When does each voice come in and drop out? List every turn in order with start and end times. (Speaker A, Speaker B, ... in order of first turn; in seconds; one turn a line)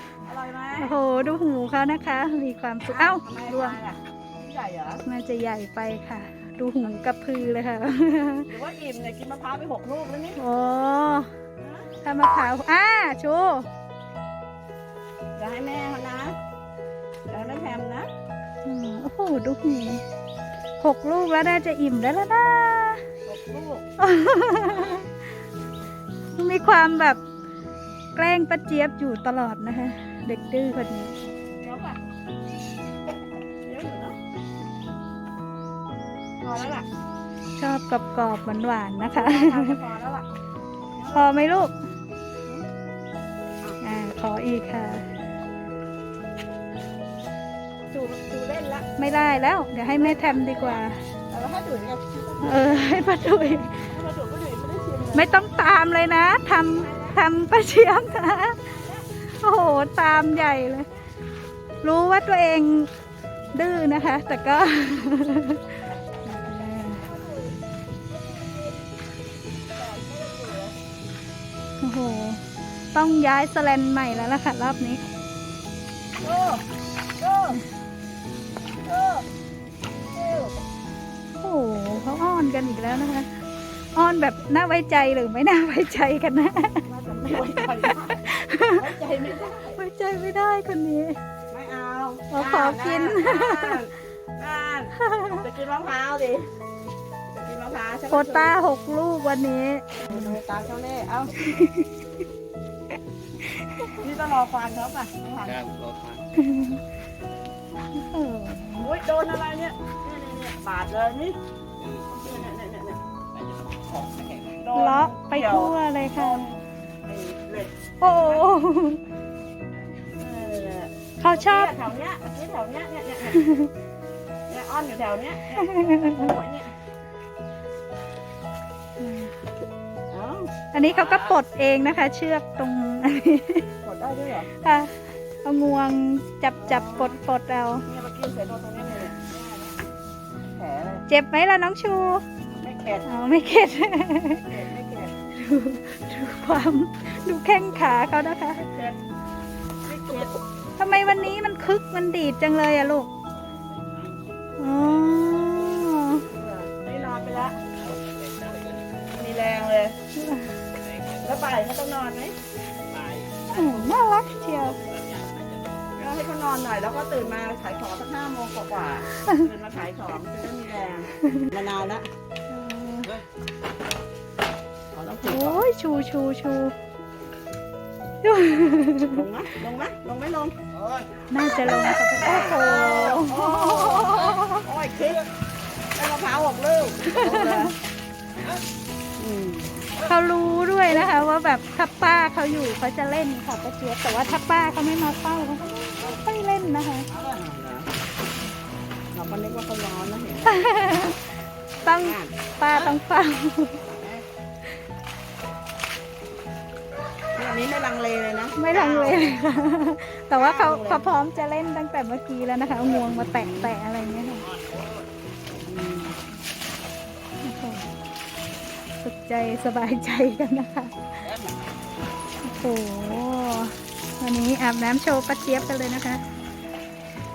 Speaker A: 0.2-1.0
Speaker B: 0.8-3.8
Speaker A: 2.9-5.0
Speaker B: 5.0-8.5
Speaker A: 8.5-10.4
Speaker B: 10.4-11.3
Speaker A: 11.6-11.9
Speaker B: 12.0-13.7
Speaker A: 15.4-16.4
Speaker A: 17.3-18.1
Speaker B: 18.6-20.0
Speaker B: 20.8-23.0
Speaker A: 23.2-23.9
Speaker B: 24.0-25.1
Speaker A: 24.6-25.0
Speaker B: 26.4-27.2
Speaker B: 28.2-31.3
Speaker A: 31.6-32.0
Speaker A: 33.6-34.2
Speaker A: 36.4-36.9
Speaker B: 37.6-39.8
Speaker A: 39.0-40.3
Speaker A: 41.0-41.3
Speaker B: 41.1-41.7
Speaker B: 43.8-45.1
Speaker A: 47.9-48.9
Speaker B: 49.0-51.0
Speaker A: 49.9-53.1
Speaker B: 52.4-53.9
Speaker A: 53.9-55.3
Speaker B: 55.1-58.6
Speaker A: 56.7-57.2
Speaker A: 58.6-59.1
Speaker B: 59.2-60.9
Speaker B: 61.8-62.9
Speaker B: 63.5-65.7
Speaker B: 66.2-67.0
Speaker A: 66.8-67.6
Speaker A: 68.1-68.9
Speaker A: 69.7-70.8
Speaker B: 71.8-72.4
Speaker B: 72.9-75.0
Speaker A: 76.2-76.6
Speaker A: 77.2-77.6
Speaker A: 78.8-79.2
Speaker A: 80.1-80.5
Speaker B: 81.4-83.3
Speaker B: 84.0-86.8
Speaker A: 86.9-89.8
Speaker B: 87.6-88.9
Speaker B: 89.7-91.2
Speaker A: 91.5-96.5
Speaker B: 92.3-93.8
Speaker B: 95.0-95.5
Speaker A: 97.3-98.5
Speaker B: 98.1-100.3
Speaker A: 100.0-101.6
Speaker B: 101.4-101.9
Speaker B: 103.4-104.0
Speaker A: 104.0-105.6
Speaker C: 105.5-106.2
Speaker B: 106.4-106.8
Speaker B: 108.0-108.9
Speaker A: 108.8-111.4
Speaker C: 111.8-112.5
Speaker A: 112.1-113.0
Speaker C: 113.3-114.6
Speaker A: 114.6-118.5
Speaker B: 114.8-116.5
Speaker B: 118.0-119.0
Speaker A: 120.2-123.4
Speaker B: 121.2-121.7
Speaker B: 123.3-123.7
Speaker A: 124.5-126.7
Speaker B: 125.6-126.2
Speaker B: 129.0-129.3
Speaker A: 130.1-130.5
Speaker B: 130.7-133.7
Speaker C: 130.9-131.2
Speaker A: 133.8-134.5
Speaker B: 134.6-137.9
Speaker A: 136.6-137.2
Speaker A: 137.9-139.8
Speaker A: 140.5-141.1
Speaker B: 141.1-142.2
Speaker A: 142.6-143.1
Speaker B: 143.1-144.5
Speaker A: 144.4-145.1
Speaker B: 145.3-148.6
Speaker A: 148.6-149.0
Speaker A: 149.8-150.4
Speaker B: 150.8-153.1
Speaker C: 153.3-155.7
Speaker B: 154.6-156.2
Speaker A: 156.2-157.6
Speaker C: 157.6-159.1
Speaker A: 159.2-160.0
Speaker B: 160.1-160.6
Speaker C: 160.8-161.3
Speaker A: 161.2-162.3
Speaker C: 162.9-166.0
Speaker B: 163.5-164.8
Speaker A: 166.0-172.1
Speaker B: 172.5-173.2
Speaker A: 174.9-175.6
Speaker B: 175.3-176.7
Speaker B: 178.2-179.2
Speaker A: 179.0-180.6
Speaker C: 180.8-181.1
Speaker B: 181.3-184.7
Speaker A: 181.6-185.3
Speaker A: 185.9-187.8
Speaker B: 187.0-187.7
Speaker A: 189.2-189.7
Speaker B: 190.1-197.1
Speaker A: 197.1-197.9
Speaker A: 199.1-200.6
Speaker B: 200.5-201.2
Speaker B: 201.8-203.8
Speaker A: 202.0-202.9
Speaker A: 207.3-209.4
Speaker B: 208.6-214.5
Speaker A: 210.3-211.0
Speaker A: 212.9-213.7
Speaker A: 215.7-216.2
Speaker B: 217.4-217.9
Speaker B: 219.0-221.2
Speaker A: 221.3-221.5
Speaker B: 222.4-226.2